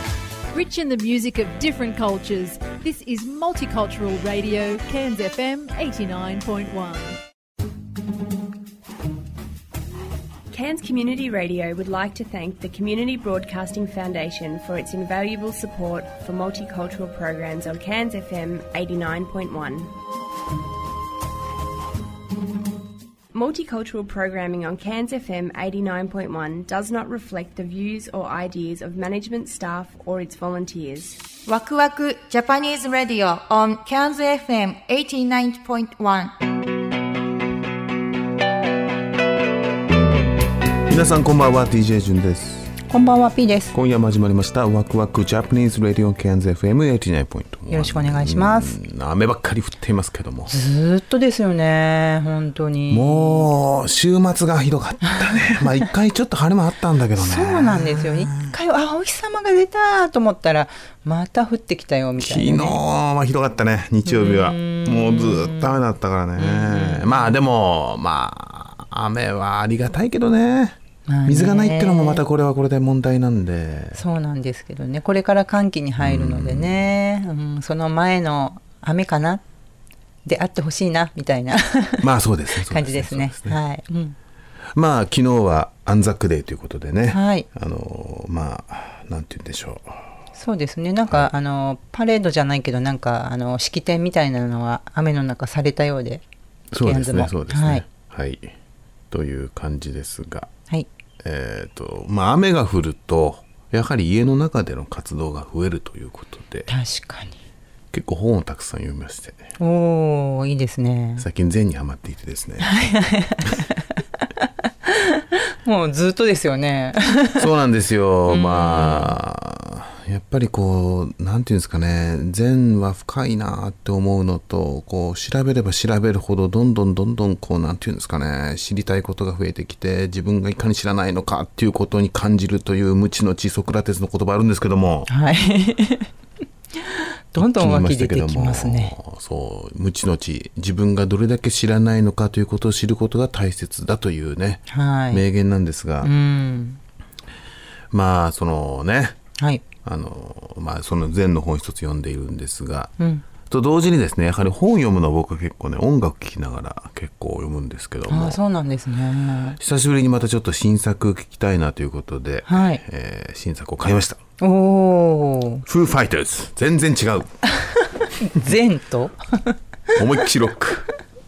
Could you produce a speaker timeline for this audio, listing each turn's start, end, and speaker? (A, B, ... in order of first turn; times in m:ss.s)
0:00.5-0:07.2 A
0:10.5-0:19.9 B
0:23.3-0:31.2 B
0:31.5-0:36.3 C
0:40.9-0:42.7 D
0:42.9-0:43.7 E
0:43.7-0:50.5 D
0:47.7-0:48.7 E
0:50.5-0:53.5 E
0:52.9-0:58.5 D
0:57.2-1:02.8 E
1:02.2-1:10.8 D
1:04.0-1:05.8 E
1:06.4-1:07.4 E
1:11.1-1:12.2 E
1:11.3-1:14.0 D
1:13.9-1:19.4 E
1:16.0-1:16.8 D
1:20.2-1:22.1 E
1:22.0-1:23.6 D
1:22.7-1:24.2 E
1:24.7-1:30.0 D
1:27.1-1:27.5 E
1:30.3-1:36.2 E
1:36.7-1:38.5 D
1:36.8-1:37.8 E
1:39.1-1:40.5 D
1:41.2-1:46.7 D
1:46.7-1:47.4 E
1:47.9-1:49.5 D
1:49.6-1:51.2 E
1:51.2-1:52.7 D
1:52.6-1:53.6 E
1:54.4-1:57.5 E
1:57.4-2:15.1 D
1:58.3-1:59.2 E
2:15.1-2:16.1 E
2:16.8-2:18.9 E
2:17.4-2:26.1 D
2:24.7-2:25.2 E
2:26.0-2:26.8 E
2:27.9-2:29.2 D
2:29.4-2:29.6 E
2:29.8-2:32.9 D
2:33.0-2:33.2 E
2:33.4-2:38.4 D
2:38.1-2:39.6 E
2:39.6-2:44.2 D
2:42.5-2:42.8 E
2:44.4-2:45.6 E
2:45.7-2:47.3 D
2:48.2-2:49.6 E
2:50.0-2:50.9 D